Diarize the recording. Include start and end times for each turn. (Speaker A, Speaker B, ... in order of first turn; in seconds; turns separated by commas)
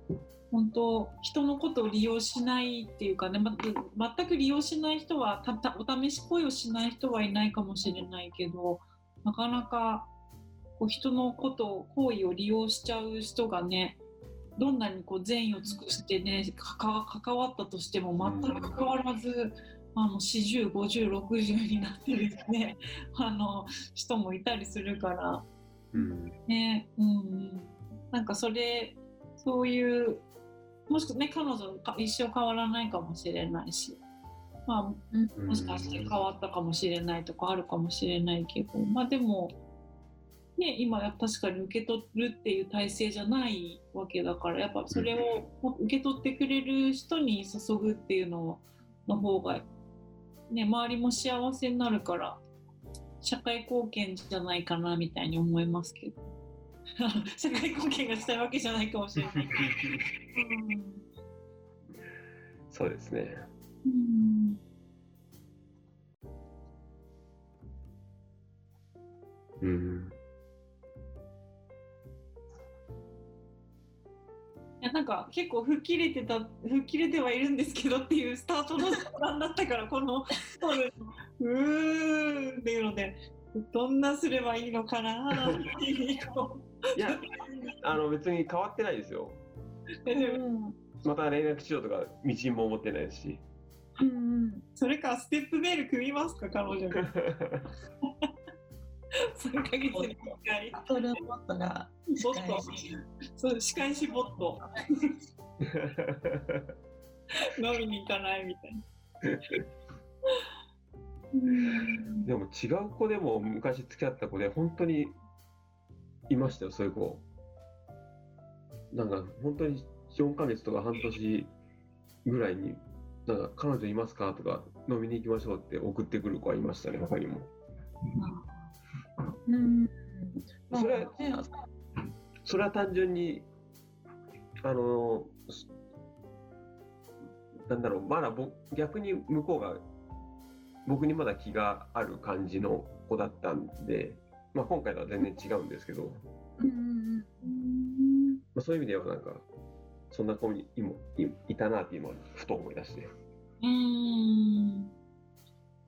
Speaker A: 0.5-10.1, Speaker A: 10.8-14.0, Speaker A: 14.6-25.4, Speaker B: 18.2-18.8, Speaker B: 25.9-26.4, Speaker A: 26.5-30.2, Speaker A: 30.9-34.0, Speaker A: 34.7-39.5, Speaker B: 35.4-36.1, Speaker A: 40.6-49.7, Speaker B: 44.9-45.2, Speaker A: 50.5-52.4, Speaker A: 53.2-56.2, Speaker A: 57.0-59.8, Speaker B: 59.6-60.0, Speaker A: 60.3-61.0, Speaker B: 62.7-63.4, Speaker A: 63.8-64.6, Speaker B: 69.6-70.2, Speaker A: 74.8-87.8, Speaker B: 87.0-87.2, Speaker B: 87.8-89.4, Speaker A: 90.0-90.4, Speaker C: 90.1-90.8, Speaker B: 91.0-93.4, Speaker C: 94.0-94.7, Speaker A: 94.8-97.0, Speaker B: 97.0-97.7, Speaker A: 99.3-100.9, Speaker C: 99.9-102.8, Speaker A: 102.1-104.6, Speaker B: 105.6-106.7, Speaker A: 107.4-108.8, Speaker B: 109.3-109.6, Speaker A: 111.3-112.3, Speaker B: 112.2-115.2, Speaker B: 116.3-117.2, Speaker B: 118.9-121.5, Speaker B: 122.2-127.5, Speaker A: 128.2-128.7, Speaker C: 129.5-131.5, Speaker B: 130.7-131.2, Speaker B: 132.4-133.4, Speaker B: 134.6-135.7, Speaker B: 137.7-139.8, Speaker B: 140.8-146.2, Speaker C: 146.6-147.5, Speaker A: 147.4-148.4, Speaker B: 148.5-149.4, Speaker B: 150.1-153.1, Speaker A: 153.6-154.9